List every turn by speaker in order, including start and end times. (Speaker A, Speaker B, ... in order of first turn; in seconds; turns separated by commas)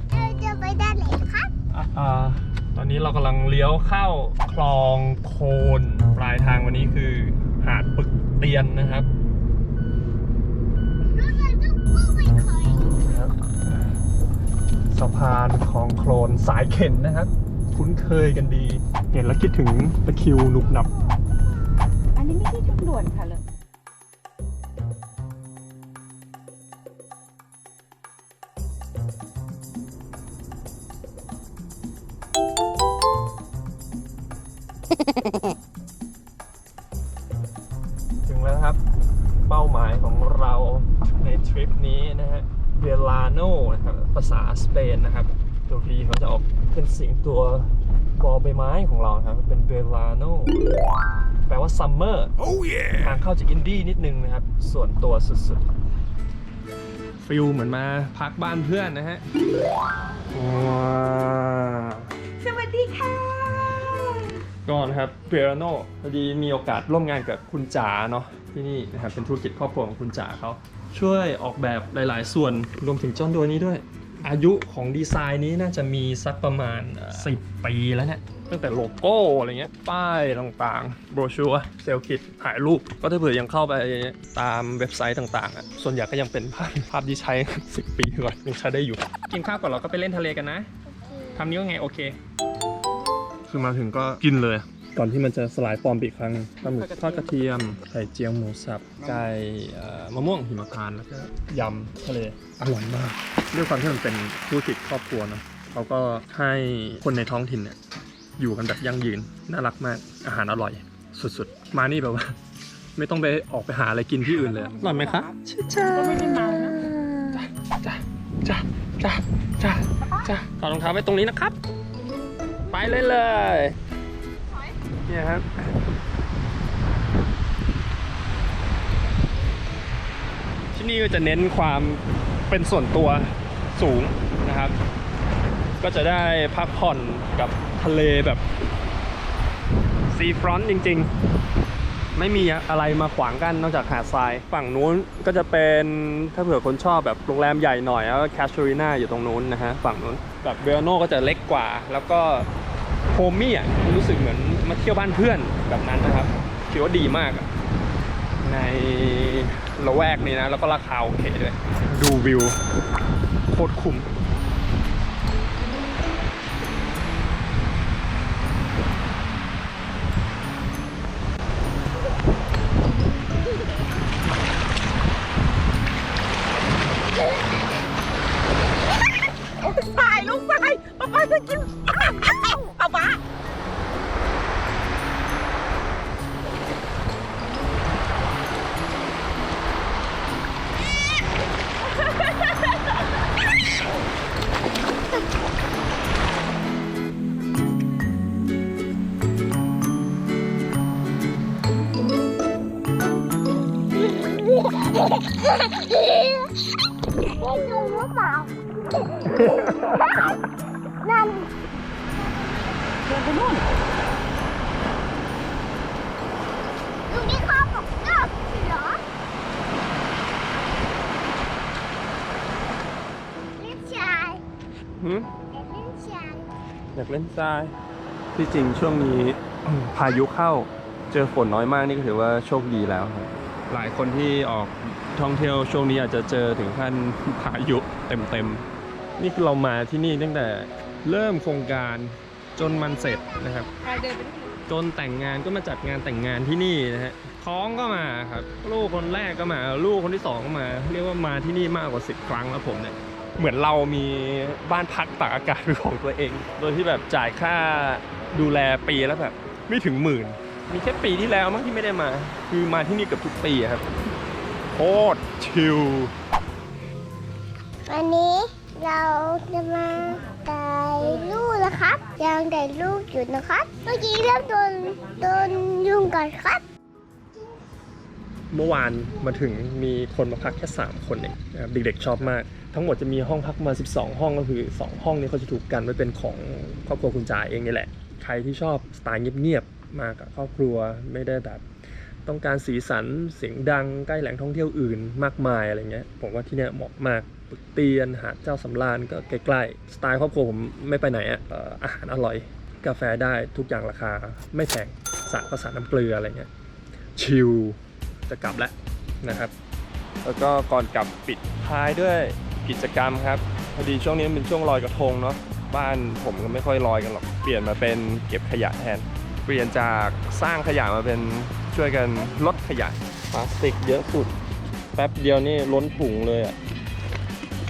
Speaker A: 0.1-1.5, Speaker B: 1.7-9.1, Speaker A: 11.1-13.3, Speaker B: 12.9-13.3, Speaker B: 14.9-20.9, Speaker C: 22.1-23.4, Speaker B: 38.2-38.8, Speaker B: 39.4-50.5, Speaker B: 51.5-52.3, Speaker B: 52.9-55.6, Speaker B: 57.2-59.2, Speaker B: 60.3-90.7, Speaker C: 62.6-63.2, Speaker A: 90.9-91.4, Speaker B: 91.3-92.2, Speaker B: 93.5-107.8, Speaker B: 108.4-112.3, Speaker B: 112.9-121.5, Speaker C: 115.9-116.7, Speaker B: 122.7-123.8, Speaker B: 125.0-125.7, Speaker B: 130.7-134.8, Speaker B: 135.8-138.4, Speaker B: 140.1-141.1, Speaker B: 142.1-152.5, Speaker B: 153.1-157.5, Speaker B: 158.4-162.6, Speaker B: 163.5-164.1, Speaker C: 179.6-183.2, Speaker A: 205.3-206.5, Speaker A: 207.3-208.5, Speaker A: 209.7-210.3, Speaker A: 211.0-211.5, Speaker A: 212.2-213.2, Speaker C: 213.2-213.6, Speaker A: 217.1-219.0, Speaker A: 223.6-224.4, Speaker B: 225.0-225.3, Speaker A: 225.5-226.5, Speaker B: 226.9-227.7, Speaker B: 228.3-238.6, Speaker B: 239.2-243.7, Speaker C: 244.1-244.4, Speaker B: 244.7-263.9, Speaker B: 264.7-266.1, Speaker A: 267.9-276.6, Speaker B: 278.5-291.6, Speaker B: 292.2-306.5, Speaker B: 307.1-309.5, Speaker B: 310.2-324.3, Speaker B: 324.9-326.6